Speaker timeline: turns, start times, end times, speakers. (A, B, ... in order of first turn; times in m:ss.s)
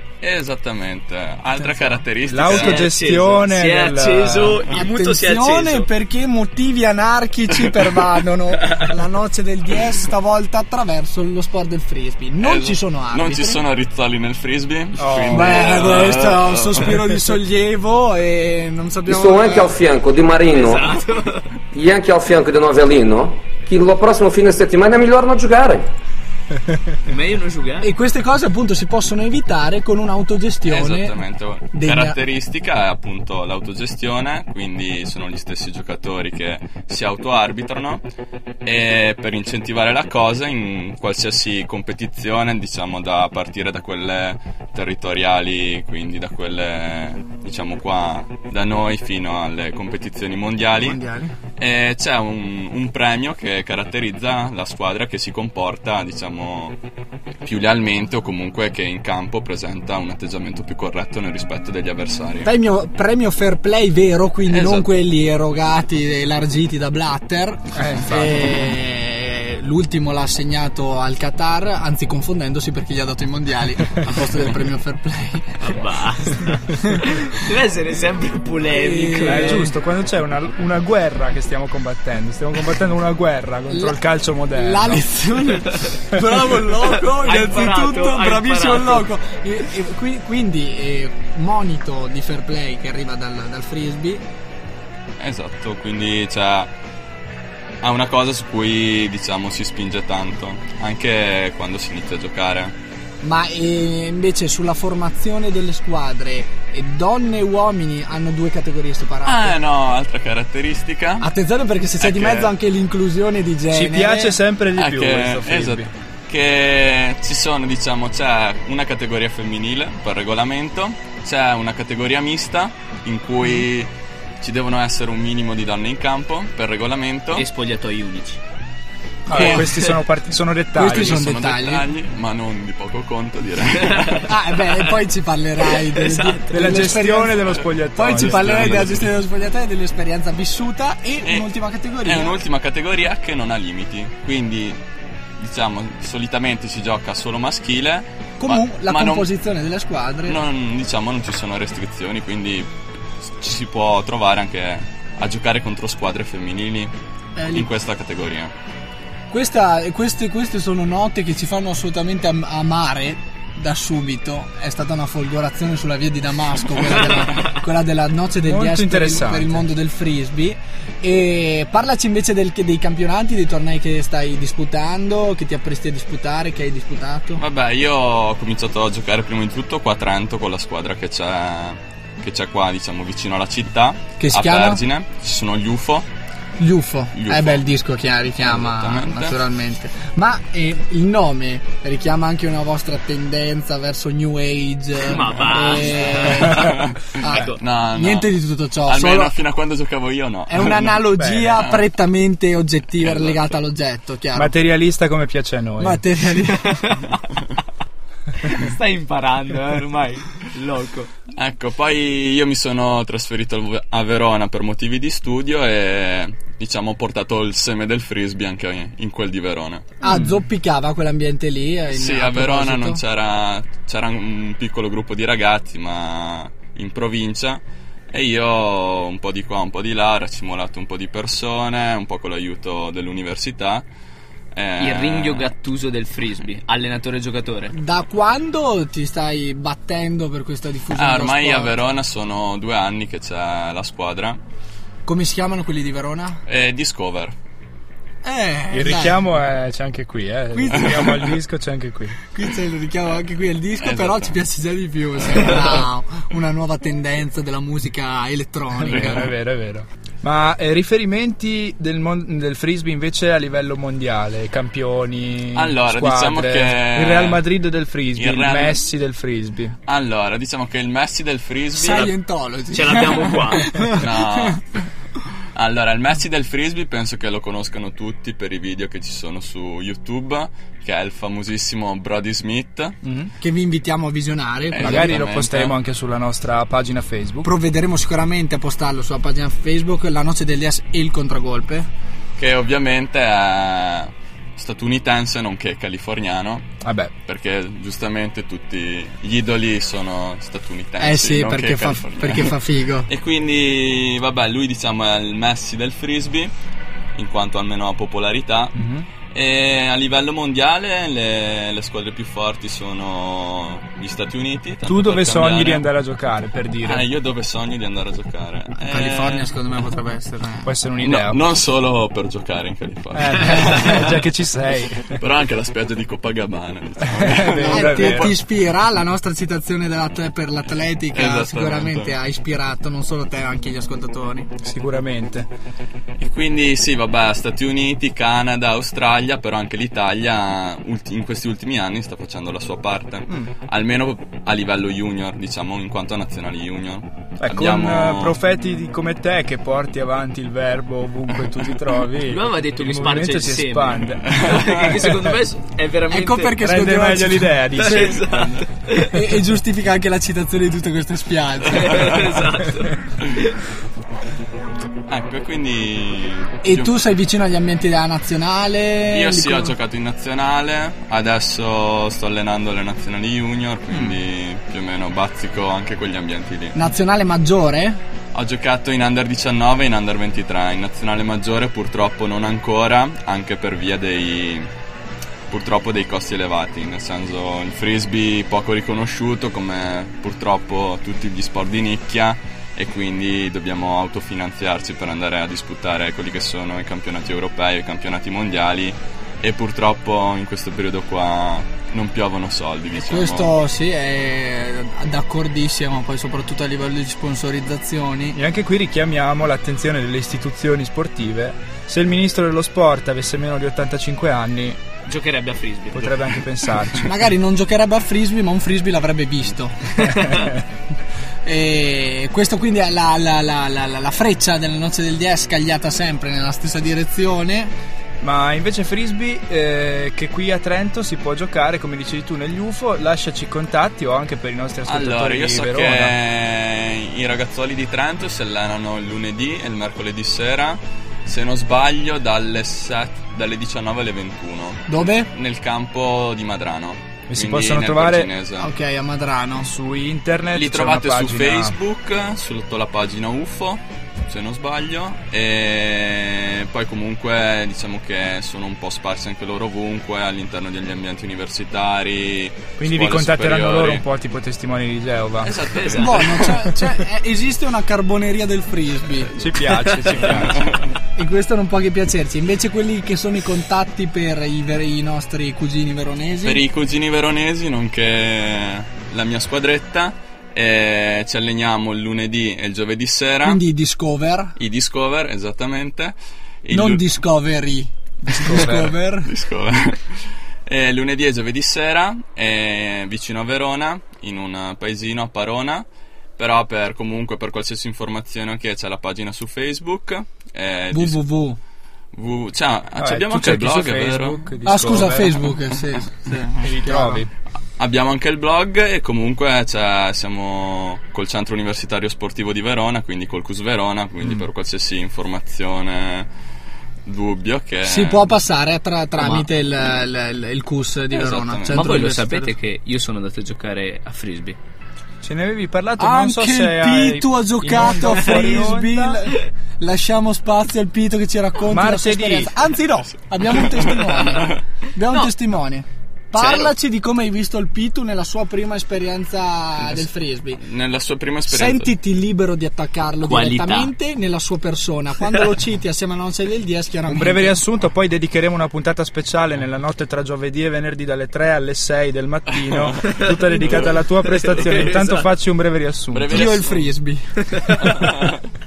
0:00.2-0:02.9 A
0:01.6-0:02.0 B
0:02.2-0:04.6 C
0:02.5-0:05.9 D
0:04.7-0:13.6 B
0:12.4-0:17.0 A
0:15.0-0:15.8 C
0:15.3-0:19.8 B
0:19.1-0:20.9 E
0:20.5-0:21.5 D
0:21.7-0:25.8 E
0:27.0-0:27.9 D
0:27.8-0:31.1 B
0:30.7-0:38.0 A
0:31.7-0:32.2 B
0:38.6-0:51.0 A
0:50.8-0:51.3 B
0:51.6-0:56.8 A
0:57.4-1:02.5 A
1:02.4-1:15.8 B
1:04.5-1:04.9 A
1:07.8-1:08.7 C
1:15.6-1:19.7 D
1:16.8-1:17.1 B
1:18.7-1:19.7 B
1:19.2-1:25.0 C
1:23.7-1:24.0 B
1:24.5-1:34.2 B
1:27.2-1:29.1 D
1:35.2-1:36.7 A
1:37.8-1:42.7 A
1:43.2-1:49.6 B
1:49.2-1:51.3 A
1:51.2-1:54.4 B
1:52.0-1:52.5 A
1:53.7-1:55.9 C
1:54.8-2:07.4 A
2:07.3-2:08.4 D
2:09.2-2:09.8 B
2:09.3-2:11.2 C
2:10.7-2:11.8 B
2:10.8-2:14.3 A
2:14.3-2:22.4 B
2:15.8-2:16.6 D
2:16.5-2:19.0 C
2:21.2-2:21.5 A
2:22.0-2:24.8 A
2:25.4-2:29.3 A
2:28.4-2:30.4 B
2:30.2-2:36.9 A
2:37.4-2:37.7 B
2:37.5-2:38.5 A
2:39.3-2:57.4 B
2:48.4-2:49.6 C
2:57.4-3:06.1 A
3:04.2-3:04.8 B
3:06.6-3:19.4 B
3:07.1-3:07.6 A
3:08.4-3:09.4 A
3:15.0-3:16.6 D
3:16.6-3:21.0 A
3:17.3-3:17.6 D
3:20.5-3:24.5 B
3:21.0-3:21.6 C
3:23.0-3:23.6 A
3:24.3-3:26.0 C
3:25.8-3:26.7 B
3:26.6-3:27.2 D
3:28.4-3:31.1 D
3:31.3-3:39.8 A
3:40.0-3:43.0 B
3:40.1-3:40.3 C
3:41.9-3:53.9 A
3:54.5-3:55.5 A
3:54.8-3:57.7 D
3:57.7-4:01.7 B
4:00.9-4:04.4 A
4:05.0-4:06.4 B
4:06.5-4:07.3 A
4:08.2-4:09.2 B
4:08.7-4:12.2 C
4:10.5-4:11.2 B
4:12.3-4:19.3 B
4:13.8-4:14.4 A
4:15.3-4:15.8 A
4:18.8-4:29.8 C
4:25.5-4:27.4 A
4:28.2-4:28.8 A
4:29.9-4:32.1 A
4:31.7-4:34.6 B
4:32.7-4:33.9 D
4:34.0-4:34.6 A
4:35.5-4:43.0 A
4:43.0-4:43.3 C
4:43.4-4:45.2 B
4:44.7-4:45.7 A
4:44.8-4:47.5 C
4:47.4-4:51.9 B
4:52.4-4:56.6 A
4:56.8-4:57.1 C
4:57.2-5:02.6 A
5:01.0-5:03.1 B
5:03.1-5:06.5 A
5:07.1-5:08.7 A
5:08.8-5:09.0 C
5:09.3-5:15.8 A
5:14.8-5:17.1 C
5:16.8-5:19.5 A
5:18.8-5:20.7 B
5:20.6-5:21.4 C
5:21.0-5:24.1 A
5:23.1-5:25.2 C
5:25.1-5:28.4 A
5:27.1-5:28.4 C
5:27.6-5:34.5 B
5:31.1-5:32.1 A
5:34.6-5:35.5 C
5:36.2-5:48.3 A
5:47.4-5:55.2 C
5:52.3-5:56.6 D
5:56.1-5:58.4 B
5:56.6-5:58.2 C
5:57.8-5:59.2 D
5:59.0-6:02.1 B
6:01.7-6:03.5 D
6:01.8-6:02.3 A
6:05.1-6:06.9 A
6:06.6-6:09.7 B
6:09.1-6:16.8 A
6:16.7-6:18.0 B
6:18.3-6:24.7 A
6:25.5-6:43.5 A
6:42.9-6:48.4 B
6:48.3-6:54.8 C
6:55.1-6:56.2 D
6:55.9-6:57.1 C
6:57.0-6:59.9 B
7:00.0-7:00.4 D
7:01.4-7:07.7 B
7:08.2-7:16.1 C
7:14.9-7:28.7 A
7:24.9-7:25.3 B
7:27.3-7:28.3 C
7:28.6-7:29.7 B
7:29.6-7:31.7 C
7:30.5-7:44.0 A
7:42.8-7:45.8 C
7:45.4-7:46.6 A
7:45.8-7:46.1 D
7:46.0-7:49.3 B
7:49.4-7:50.8 C
7:50.2-7:50.9 A
7:51.2-7:56.6 B
7:56.4-8:03.6 A
8:03.4-8:04.5 B
8:04.6-8:07.1 A
8:06.7-8:09.3 B
8:08.3-8:08.9 C
8:08.5-8:21.2 A
8:20.9-8:21.6 B
8:22.1-8:24.4 A
8:23.0-8:25.5 C
8:24.6-8:27.2 B
8:26.6-8:27.3 C
8:27.8-8:36.3 A
8:37.0-8:38.3 A
8:37.8-8:42.5 B
8:39.2-8:39.5 D
8:41.1-8:41.9 A
8:41.7-8:44.6 D
8:45.2-8:49.2 C
8:46.0-9:00.6 B
8:48.2-8:48.6 D
8:51.7-8:52.5 C
8:53.4-8:54.6 A
8:56.4-8:56.7 D
9:00.6-9:01.9 A
9:01.5-9:07.6 B
9:03.2-9:03.9 D
9:07.1-9:16.4 C
9:12.7-9:15.0 A
9:13.2-9:13.5 D
9:14.3-9:15.2 D
9:16.1-9:16.9 A
9:16.3-9:17.3 B
9:17.5-9:18.0 D
9:17.8-9:18.4 A